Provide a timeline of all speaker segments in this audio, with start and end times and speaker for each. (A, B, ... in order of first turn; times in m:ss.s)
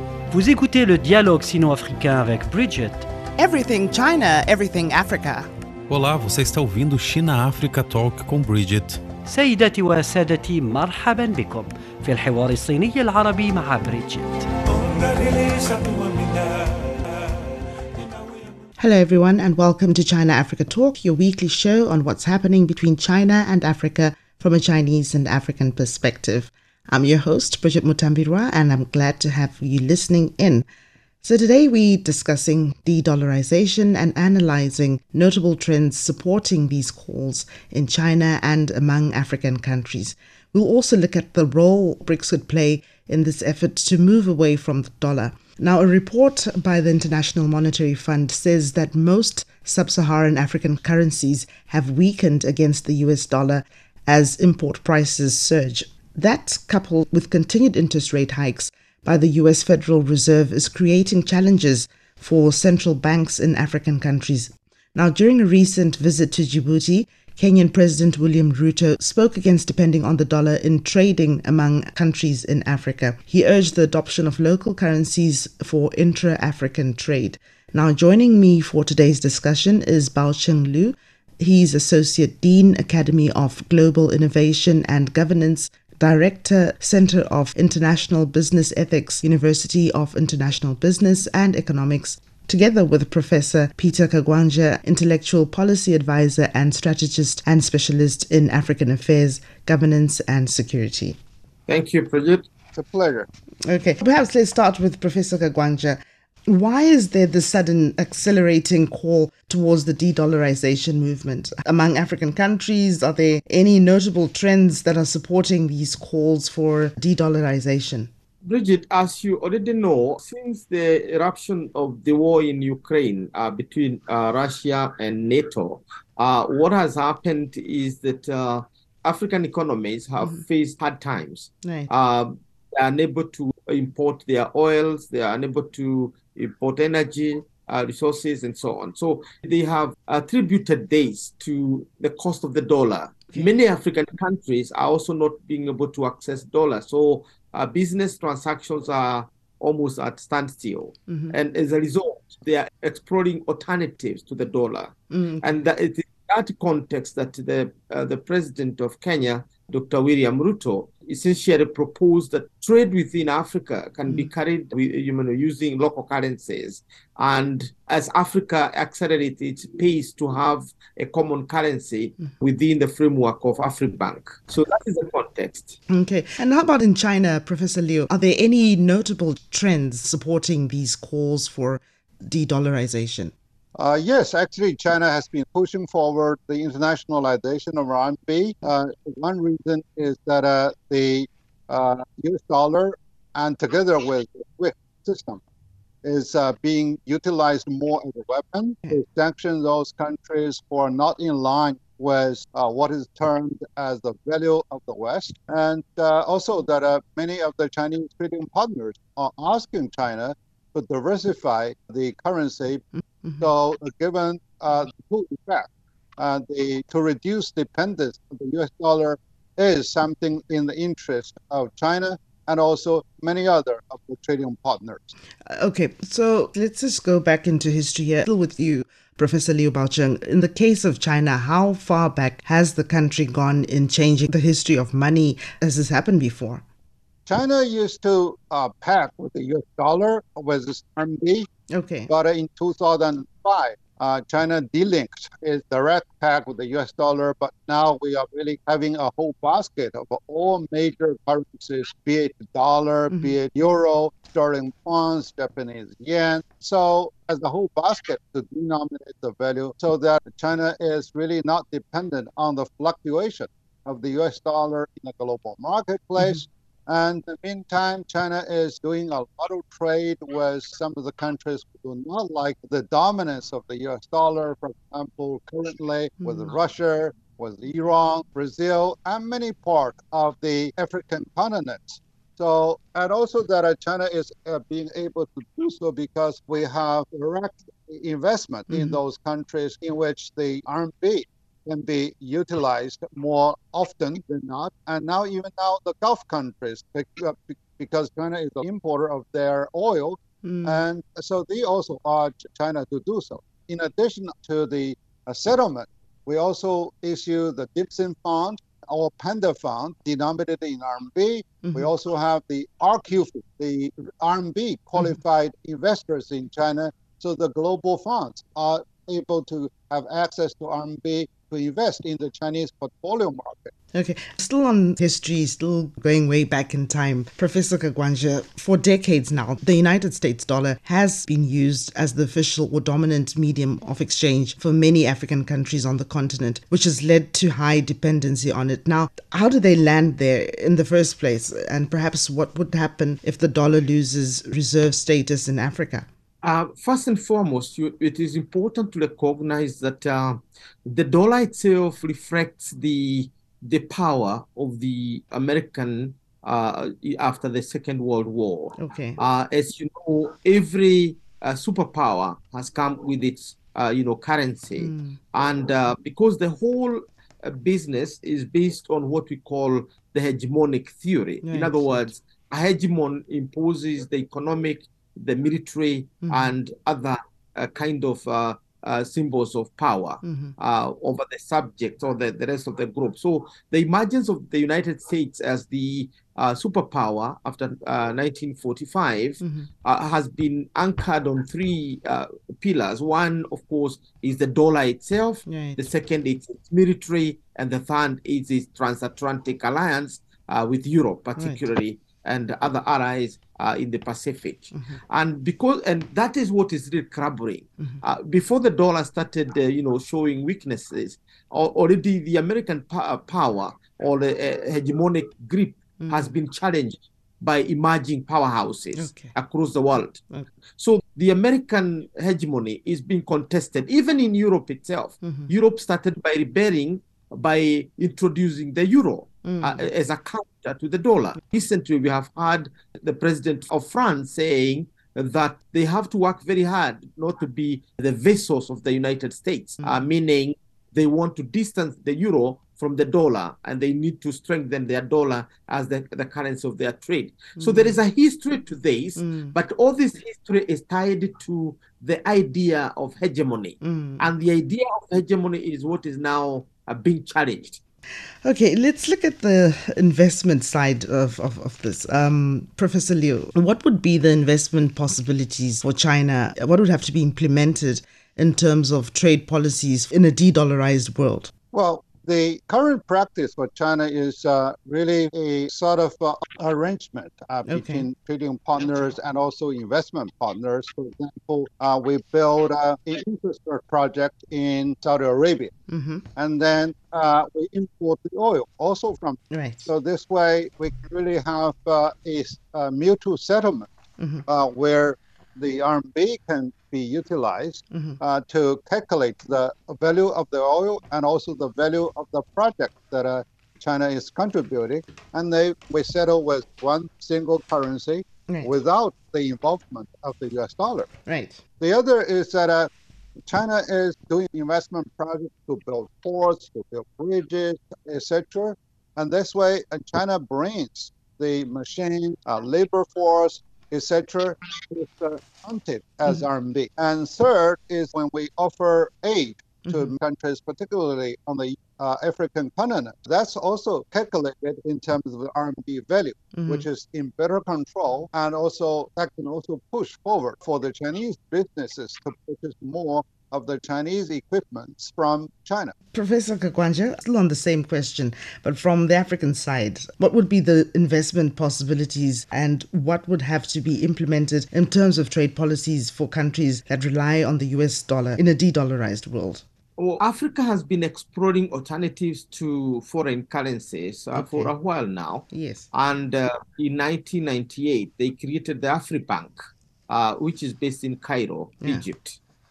0:00.3-0:03.1 A
0:03.4-0:05.5 B
0:05.9-0:09.0 C
0:09.2-0:14.5 A
0:14.8-0:17.0 C
0:18.0-0:18.5 C
0:18.8-0:30.6 B
0:31.2-1:41.2 B
1:41.7-1:42.4 D
1:42.7-1:43.3 E
1:43.6-1:58.1 B
1:58.4-2:55.8 D
2:11.6-2:11.9 B
2:31.1-2:31.3 B
2:35.1-2:35.6 B
2:55.9-3:03.3 B
3:03.8-3:15.4 E
3:16.0-3:32.8 E
3:33.0-3:33.5 B
3:33.4-3:45.1 E
3:45.4-3:56.6 B
3:57.3-4:01.5 E
4:01.7-4:02.1 B
4:02.1-5:23.7 E
4:36.2-4:36.5 B
4:48.7-4:49.0 B
5:00.4-5:00.8 B
5:23.9-5:46.1 B
5:46.4-7:00.2 D
5:58.8-5:59.2 B
6:04.8-6:05.2 B
6:11.4-6:12.1 B
6:16.2-6:16.5 B
6:20.2-6:20.5 B
6:29.4-6:29.7 B
6:35.4-6:35.8 B
6:56.0-6:56.3 B
6:59.0-6:59.3 B
7:00.8-7:37.8 D
7:05.2-7:05.5 B
7:09.4-7:09.9 B
7:27.6-7:28.0 B
7:29.2-7:29.5 B
7:33.8-7:34.2 B
7:38.4-7:51.5 B
7:51.7-8:05.7 E
7:57.7-7:58.0 B
8:05.9-8:06.2 B
8:06.4-8:13.9 E
8:09.5-8:09.9 B
8:14.2-8:14.4 B
8:14.5-8:31.1 E
8:17.9-8:18.2 B
8:31.3-8:31.6 B
8:31.8-8:32.9 E
8:33.5-9:05.9 E
8:49.9-8:50.2 B
8:56.6-8:56.8 B
9:06.1-9:19.6 B
9:20.0-9:29.5 D
9:24.3-9:24.7 B
9:25.5-9:25.8 B
9:30.1-9:32.4 D